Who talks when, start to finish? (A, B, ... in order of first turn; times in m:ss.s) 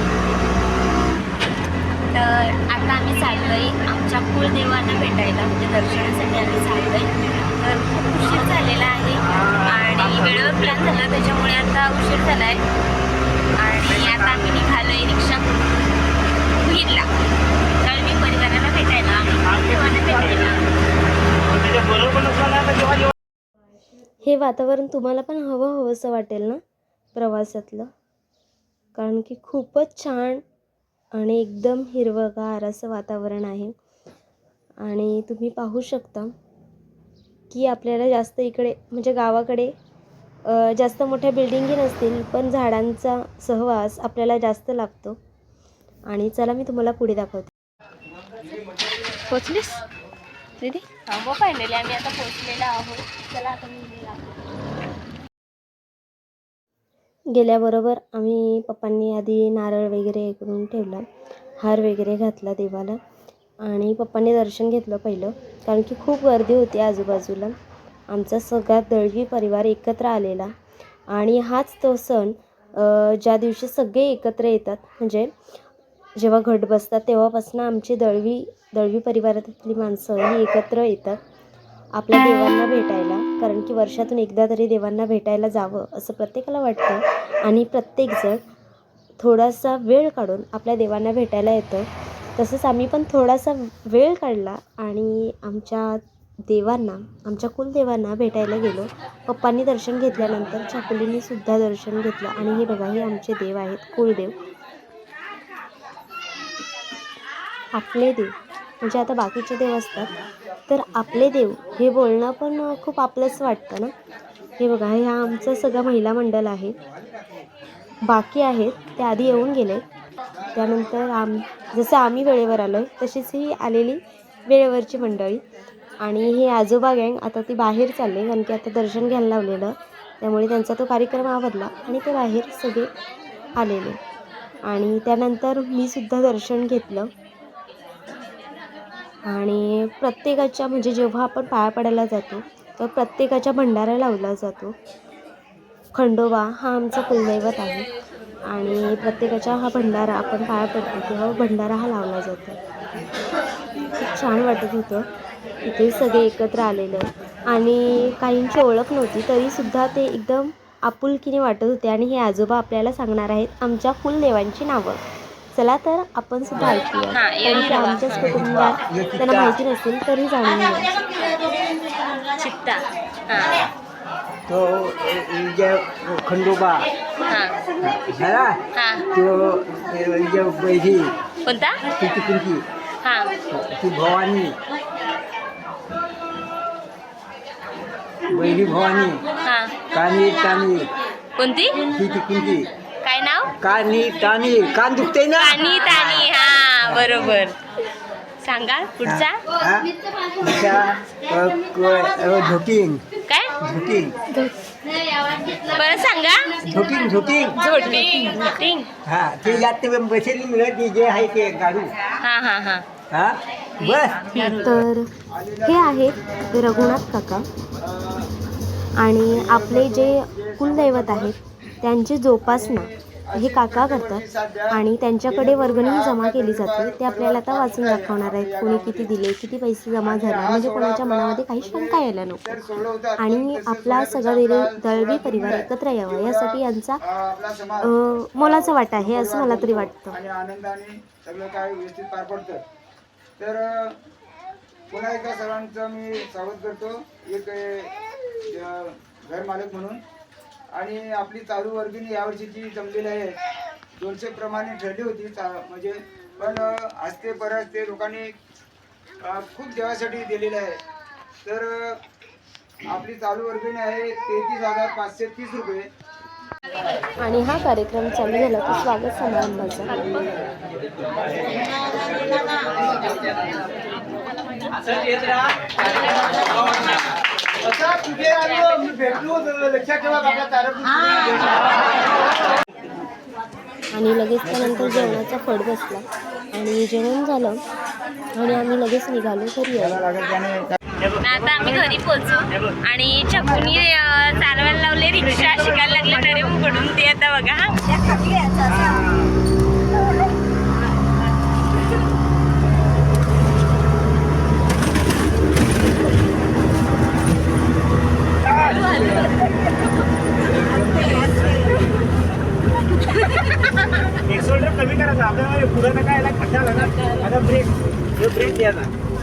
0:02.1-0:12.6 A
0:09.4-0:10.4 B
0:13.6-0:15.6 A
0:14.0-0:14.3 B
0:16.6-0:17.1 A
0:17.8-0:20.6 A
0:21.5-0:23.1 B
0:24.2-0:26.6 C
0:27.1-0:27.9 C
0:29.0-0:30.4 C
0:31.2-0:33.7 C
0:34.8-0:36.3 C
0:37.5-0:39.7 C
0:40.5-0:45.2 C
0:46.1-0:47.5 C
0:49.3-0:49.8 A
0:50.6-0:54.4 A
0:57.3-1:01.0 C
1:01.6-1:03.0 C
1:03.6-1:07.6 C
1:08.1-1:10.5 C
1:11.1-1:15.3 C
1:16.2-1:21.2 C
1:22.0-1:28.4 C
1:29.2-1:44.3 C
1:47.7-1:50.1 C
1:50.7-1:53.9 C
1:54.6-1:56.8 C
1:58.0-1:59.8 C
2:00.5-2:05.4 C
2:06.0-2:12.9 C
2:13.6-2:14.0 C
2:14.6-2:17.1 C
2:19.2-2:24.8 C
2:25.9-2:27.9 C
2:28.4-2:32.6 C
2:34.0-2:35.1 C
2:35.6-2:45.0 C
2:45.5-2:50.9 C
2:47.1-2:48.2 A
2:48.1-2:49.6 D
2:52.4-2:53.6 A
2:53.4-2:53.7 D
2:54.5-2:56.9 D
2:57.3-2:57.6 A
2:57.8-2:58.6 D
2:58.7-2:59.1 A
2:59.1-3:01.2 D
3:01.4-3:01.8 A
3:02.0-3:02.6 D
3:03.0-3:03.3 A
3:03.5-3:04.6 D
3:08.3-3:09.2 D
3:09.4-3:09.8 A
3:09.9-3:10.9 D
3:11.4-3:11.8 A
3:11.9-3:12.7 D
3:13.0-3:13.5 A
3:13.6-3:17.3 D
3:15.4-3:17.6 A
3:18.4-3:19.4 A
3:19.0-3:23.0 D
3:23.3-3:23.5 A
3:23.6-3:24.2 D
3:25.6-3:26.6 A
3:26.6-3:32.0 D
3:27.6-3:28.9 A
3:32.2-3:32.8 A
3:33.1-3:34.5 D
3:33.9-3:34.6 A
3:34.5-3:35.1 C
3:35.3-3:37.0 E
3:35.6-3:37.5 C
3:37.8-3:38.3 E
3:39.0-3:52.6 C
3:39.3-3:41.4 E
3:42.4-3:49.1 E
3:50.0-4:02.6 E
3:53.2-3:57.0 C
3:57.8-4:00.2 C
4:03.4-4:04.0 E
4:04.9-4:10.0 E
4:10.7-4:13.4 E
4:13.9-4:18.4 E
4:19.2-4:20.8 E
4:21.4-4:22.0 E
4:22.8-4:25.9 E
4:27.2-4:30.0 C
4:37.6-4:41.2 E
4:43.9-4:47.6 C
4:44.6-4:45.0 E
4:48.3-4:50.0 C
4:49.8-4:50.8 E
4:51.2-4:57.9 A
4:55.2-4:56.5 B
4:58.7-4:59.3 B
5:08.4-5:09.3 B
5:10.5-5:11.8 B
5:14.2-5:18.9 B